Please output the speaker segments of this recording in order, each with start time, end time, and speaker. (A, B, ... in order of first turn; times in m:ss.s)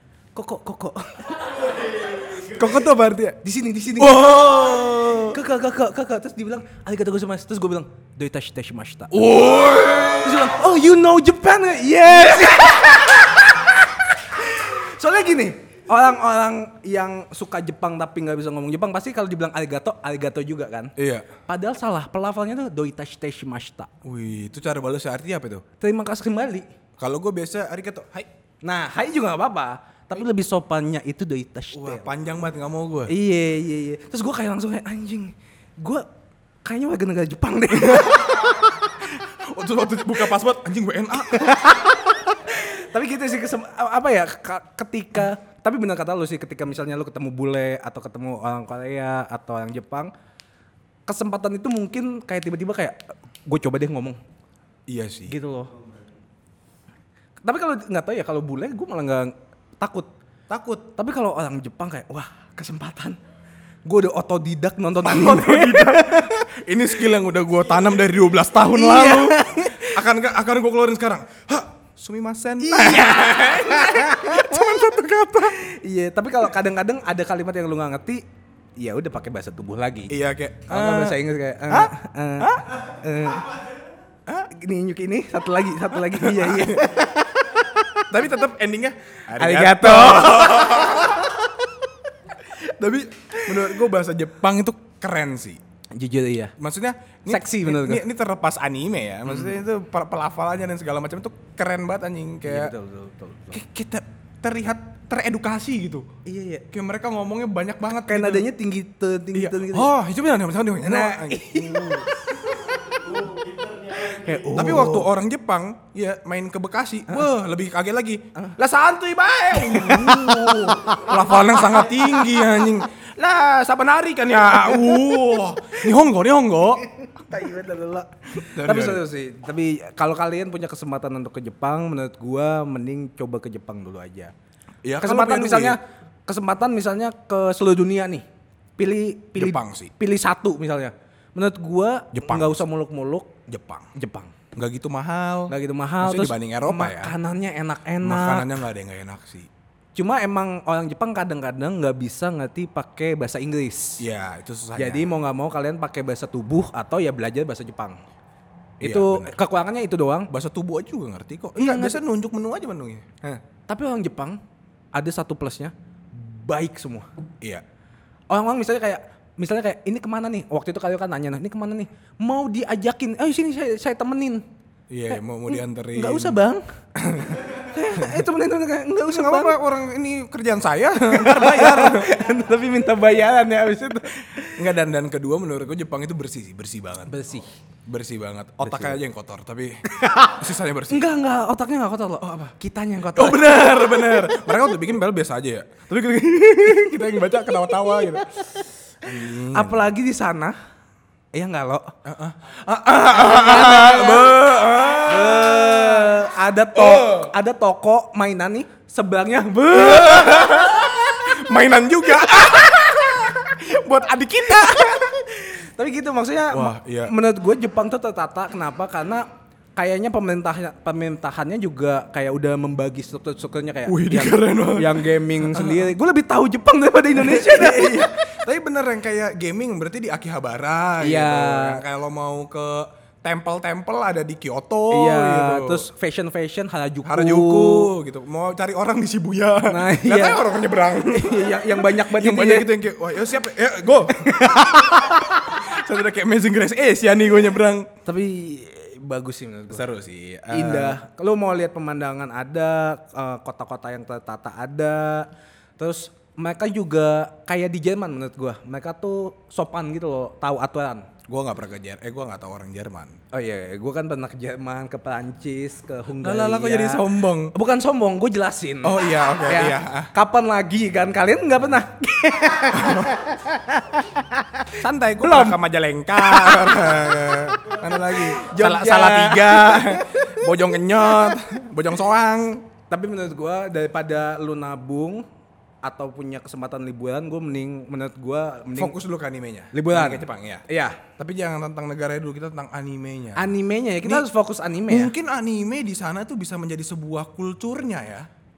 0:00.3-0:02.5 A
0:02.4-0:03.4 B
0:03.4-0:09.2 A
0:04.0-0:05.4 B
0:09.1-0:10.5 B
0:10.2-0:20.9 A
0:21.0-0:21.3 B
0:21.5-0:23.9 A
0:24.0-0:25.6 B
0:25.8-0:26.7 A
0:27.0-0:28.3 B
0:28.6-0:32.1 A
0:31.7-0:33.1 B
0:33.1-0:36.0 A
0:36.6-0:38.9 A
0:37.7-0:41.8 B
0:41.3-0:50.1 A
0:51.1-0:54.2 A
0:54.9-0:55.4 B
0:55.3-0:55.7 A
0:57.4-1:00.1 A
1:00.5-1:00.9 B
1:01.0-1:03.2 A
1:03.8-1:06.4 A
1:05.0-1:15.6 B
1:08.7-1:10.0 A
1:12.6-1:14.8 A
1:15.5-1:18.2 A
1:18.8-1:20.1 A
1:20.1-1:22.6 B
1:20.7-1:23.5 A
1:24.5-1:28.1 A
1:26.0-1:27.0 B
1:28.1-1:31.5 B
1:29.3-1:31.4 A
1:32.4-1:35.6 B
1:33.4-1:33.7 A
1:35.9-1:36.5 A
1:36.6-1:42.7 B
1:37.3-1:38.0 A
1:42.4-1:43.6 A
1:43.5-1:46.1 B
1:46.2-1:46.6 A
1:46.7-1:48.5 B
1:48.0-1:49.9 A
1:49.3-1:52.1 B
1:50.8-1:55.1 A
1:54.5-2:06.8 B
1:59.5-2:01.4 A
2:07.0-2:14.3 A
2:08.4-2:09.0 B
2:14.8-2:15.8 B
2:15.0-2:18.2 A
2:18.8-2:24.3 A
2:19.4-2:19.9 B
2:22.1-2:22.6 B
2:23.5-2:23.9 B
2:24.5-2:27.1 B
2:25.5-2:28.6 A
2:28.0-2:29.5 B
2:29.9-2:34.0 A
2:34.0-2:35.1 B
2:34.8-2:38.0 A
2:38.8-2:40.3 A
2:38.8-2:39.4 B
2:40.3-2:43.2 B
2:41.6-2:42.0 A
2:43.2-2:44.4 A
2:44.9-2:47.1 A
2:48.3-2:54.4 A
2:54.9-2:56.4 B
2:55.1-2:56.6 A
2:57.0-2:57.4 B
2:57.3-2:59.6 A
2:57.9-2:58.3 B
2:59.0-3:02.1 B
3:01.1-3:04.6 A
3:04.6-3:07.2 B
3:07.1-3:07.5 A
3:07.8-3:11.1 B
3:08.6-3:09.0 A
3:09.9-3:14.5 A
3:12.2-3:12.5 B
3:13.1-3:18.3 B
3:19.0-3:19.9 B
3:19.1-3:20.6 A
3:21.3-3:21.9 A
3:22.0-3:26.2 B
3:23.1-3:24.4 A
3:25.0-3:30.9 A
3:26.7-3:27.3 B
3:29.7-3:35.2 B
3:34.5-3:48.2 A
3:36.5-3:37.1 B
3:43.8-3:45.9 B
3:47.1-3:55.9 B
3:51.0-3:51.8 A
3:54.9-3:57.9 A
3:57.0-4:07.9 B
3:59.7-4:00.4 A
4:01.0-4:02.7 A
4:04.1-4:05.5 A
4:08.0-4:09.8 A
4:09.7-4:11.0 B
4:10.5-4:21.1 A
4:21.3-4:23.2 B
4:23.3-4:35.6 A
4:26.2-4:27.5 B
4:28.8-4:30.1 B
4:32.7-4:33.2 B
4:34.7-4:42.7 B
4:36.2-4:37.4 A
4:38.0-4:40.5 A
4:42.9-4:45.2 A
4:45.8-4:49.0 A
4:48.7-4:50.6 B
4:49.7-4:51.0 A
4:51.2-4:53.5 B
4:53.4-4:55.1 A
4:54.0-4:54.3 B
4:54.9-4:58.3 B